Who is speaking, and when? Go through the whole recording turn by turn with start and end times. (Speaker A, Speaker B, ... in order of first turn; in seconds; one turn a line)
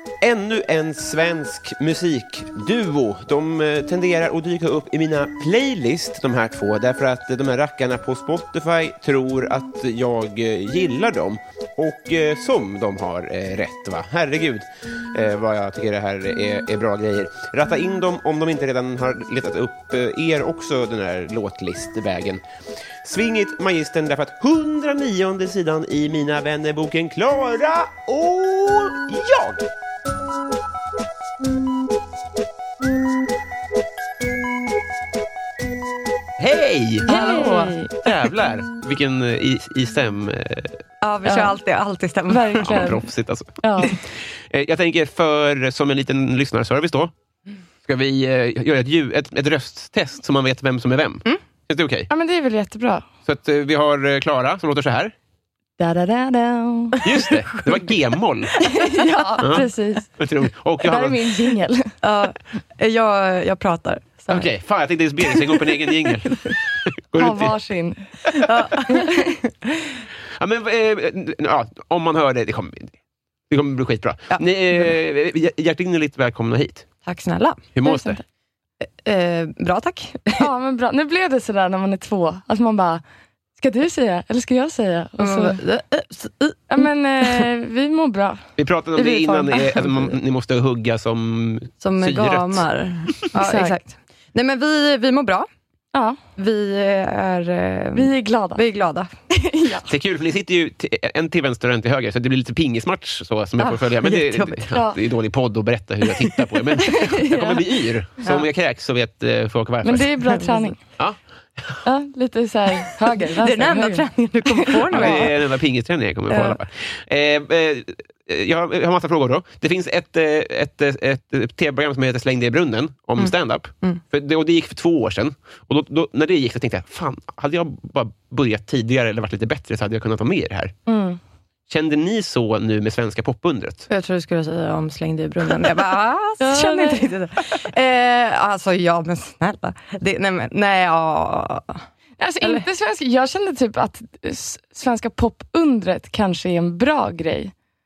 Speaker A: 0.2-22.4
Speaker A: 23.0-29.7
Speaker A: 36.4-37.5
Speaker B: 37.1-37.9
Speaker C: 37.1-37.7
Speaker A: 38.0-40.8
Speaker C: 41.0-43.0
Speaker B: 41.2-41.6
Speaker B: 42.3-43.0
Speaker A: 42.6-47.1
Speaker B: 43.6-44.0
Speaker A: 47.9-52.1
Speaker B: 52.1-53.0
Speaker A: 53.2-55.1
Speaker B: 55.8-57.0
Speaker A: 57.0-58.5
Speaker B: 58.6-60.1
Speaker C: 58.7-59.5
Speaker A: 59.4-61.2
Speaker B: 60.8-61.9
Speaker C: 62.0-64.3
Speaker A: 64.3-67.5
Speaker C: 65.2-65.9
Speaker B: 67.2-68.1
Speaker C: 68.4-69.2
Speaker B: 68.9-69.5
Speaker A: 70.4-72.9
Speaker A: 73.5-76.9
Speaker C: 74.3-74.9
Speaker C: 77.0-77.6
Speaker A: 77.8-78.2
Speaker B: 77.8-78.2
Speaker C: 78.8-80.4
Speaker B: 80.4-83.0
Speaker B: 83.6-85.6
Speaker C: 85.2-87.5
Speaker B: 86.7-89.6
Speaker A: 88.6-92.7
Speaker C: 89.2-90.1
Speaker C: 91.8-95.5
Speaker B: 93.4-93.8
Speaker C: 96.4-99.1
Speaker B: 97.9-98.6
Speaker B: 99.3-99.9
Speaker A: 99.9-110.2
Speaker C: 103.6-104.6
Speaker B: 104.7-105.0
Speaker B: 106.8-107.6
Speaker B: 109.8-110.8
Speaker C: 110.2-110.7
Speaker A: 111.0-111.8
Speaker B: 111.8-115.2
Speaker C: 113.4-115.5
Speaker A: 114.9-130.7
Speaker C: 116.3-116.6
Speaker C: 123.2-124.0
Speaker B: 130.9-131.2
Speaker A: 131.7-133.9
Speaker C: 133.9-141.8
Speaker B: 136.4-137.1
Speaker B: 142.2-147.5